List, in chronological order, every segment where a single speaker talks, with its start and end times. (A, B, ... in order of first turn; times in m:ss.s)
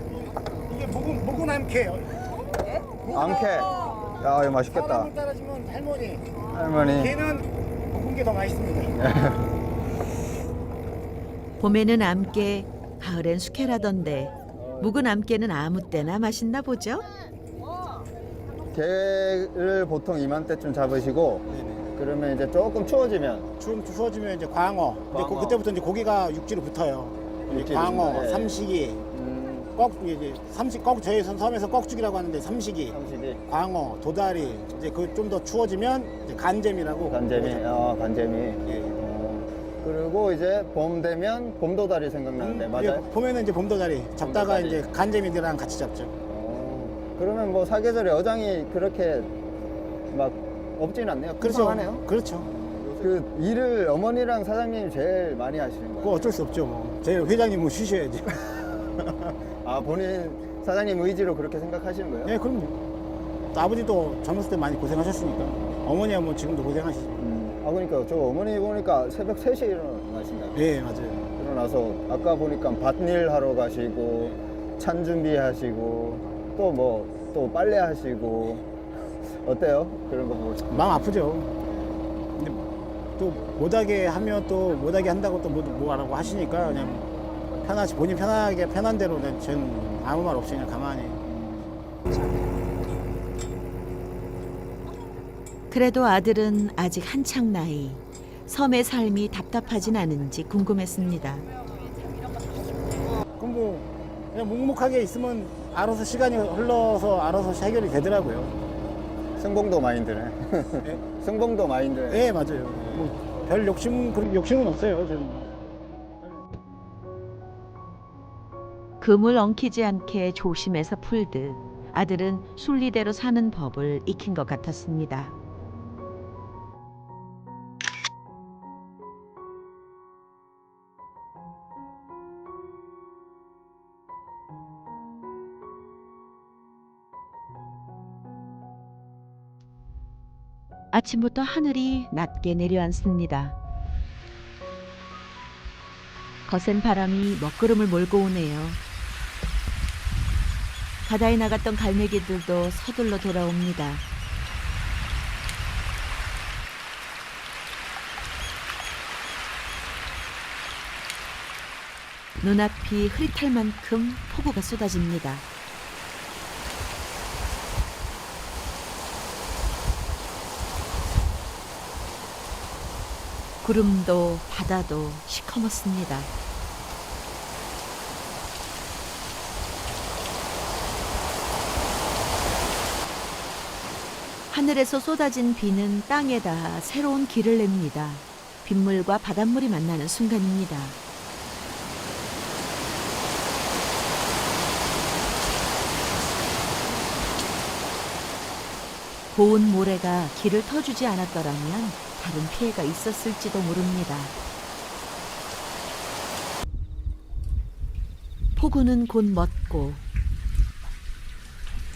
0:00.2-0:02.2 A
0:03.0-0:04.0 A
0:03.1-0:05.1 B
0:04.7-0:06.4 A
0:06.5-0:07.2 B
0:06.9-0:08.9 A
0:09.0-0:09.4 B
0:11.6-0:17.0 C
0:14.6-0:14.9 B
0:18.7-0:23.5 B
0:21.5-0:21.8 A
0:23.6-0:29.0 A
0:25.1-0:25.6 B
0:27.5-0:29.7 B
0:29.7-0:33.0 A
0:32.9-0:33.5 B
0:33.5-0:37.6 A
0:37.1-0:43.1 B
0:42.4-0:46.1 A
0:44.2-0:44.9 B
0:46.2-0:49.3 B
0:50.1-0:52.0 B
0:51.4-0:52.5 A
0:52.6-0:56.4 B
0:56.0-0:59.3 A
0:59.6-1:02.3 B
1:02.2-1:02.8 A
1:03.5-1:07.2 A
1:07.2-1:10.7 B
1:10.5-1:11.3 A
1:11.3-1:18.6 B
1:19.4-1:21.0 B
1:20.7-1:21.5 A
1:22.4-1:22.7 A
1:23.2-1:27.1 A
1:27.6-1:31.2 A
1:35.7-1:41.5 C
1:43.4-1:48.5 A
1:49.4-1:52.3 B
1:52.1-1:55.5 A
1:59.0-2:05.4 C
2:20.9-2:23.6 C
2:26.4-2:28.8 C
2:31.0-2:34.0 C
2:42.4-2:45.4 C
2:53.6-2:56.3 C
3:04.5-3:11.0 C
3:19.3-3:24.3 C
3:28.6-3:30.0 C